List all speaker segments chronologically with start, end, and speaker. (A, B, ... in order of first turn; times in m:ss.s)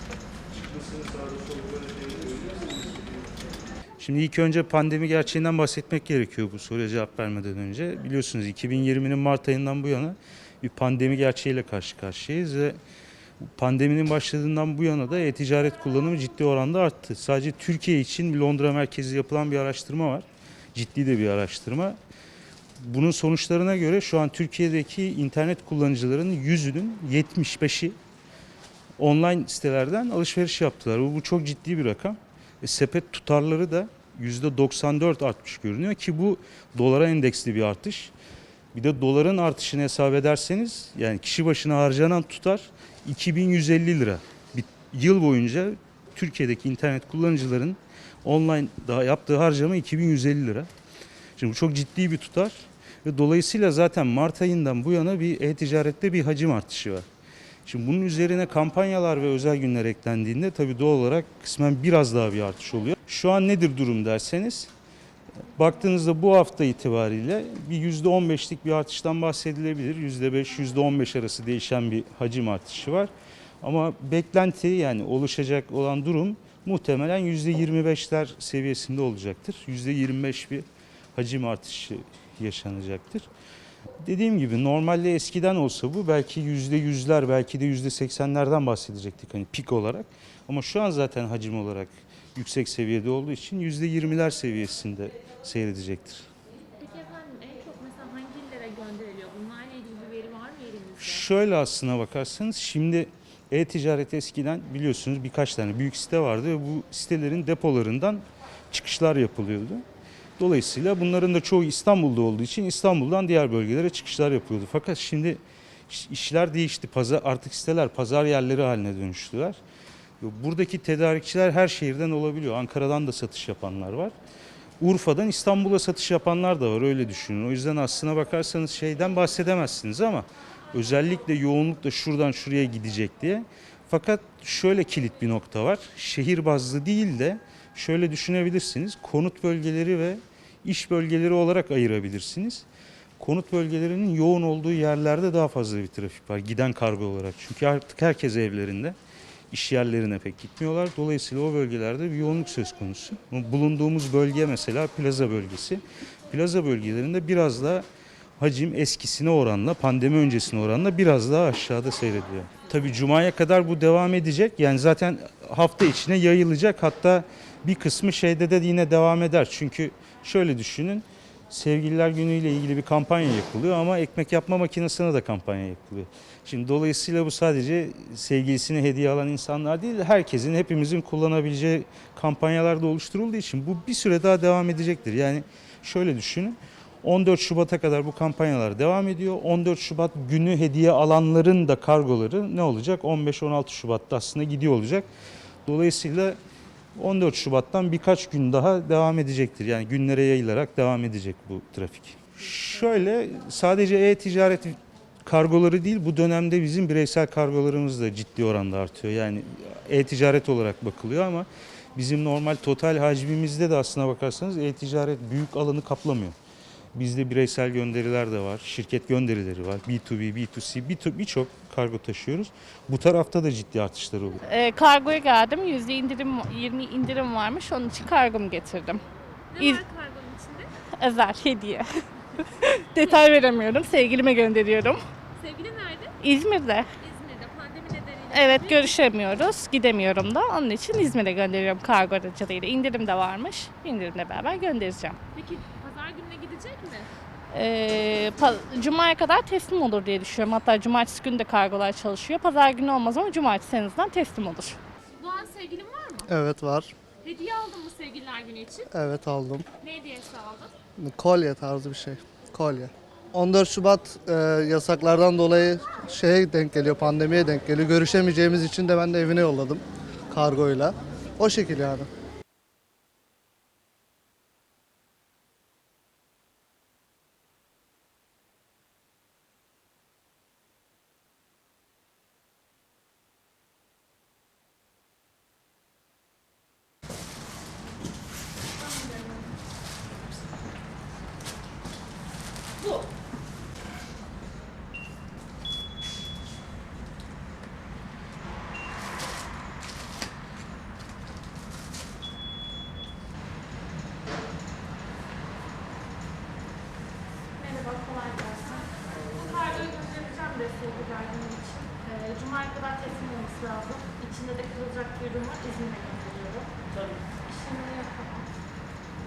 0:00.5-0:03.3 A
0:04.0-0:12.8 A
0:13.4-0:22.0 A
0:22.8-0:28.0 A
0:29.0-0:38.1 A
0:38.7-0:50.7 A
0:51.4-0:57.0 A
0:57.7-1:04.7 A
1:05.5-1:13.1 A
1:13.6-1:23.3 A
1:24.0-1:36.2 A
1:36.8-1:41.3 B
1:41.0-1:49.8 A
1:50.4-1:59.6 A
2:00.2-2:04.1 A
2:04.8-2:22.7 A
2:23.2-2:29.0 A
2:29.5-2:37.9 A
2:38.4-3:15.1 A
3:15.7-3:16.4 A
3:17.0-3:36.4 A
3:37.0-3:44.4 A
3:44.5-3:49.0 C
3:49.5-3:50.7 B
3:51.0-3:55.0 C
3:55.4-3:56.2 B
3:56.2-3:56.9 C
3:57.0-3:59.0 B
3:58.3-4:05.2 C
4:05.4-4:07.1 B
4:07.5-4:14.8 C
4:15.2-4:16.3 B
4:16.3-4:16.9 D
4:17.2-4:18.9 B
4:18.9-4:19.7 D
4:19.8-4:20.7 B
4:21.0-4:32.1 D
5:07.6-5:08.6 E
5:07.6-5:08.2 C
5:08.7-5:10.5 B
5:10.2-5:10.5 C
5:10.7-5:16.7 E
5:12.0-5:13.0 C
5:17.4-5:18.5 C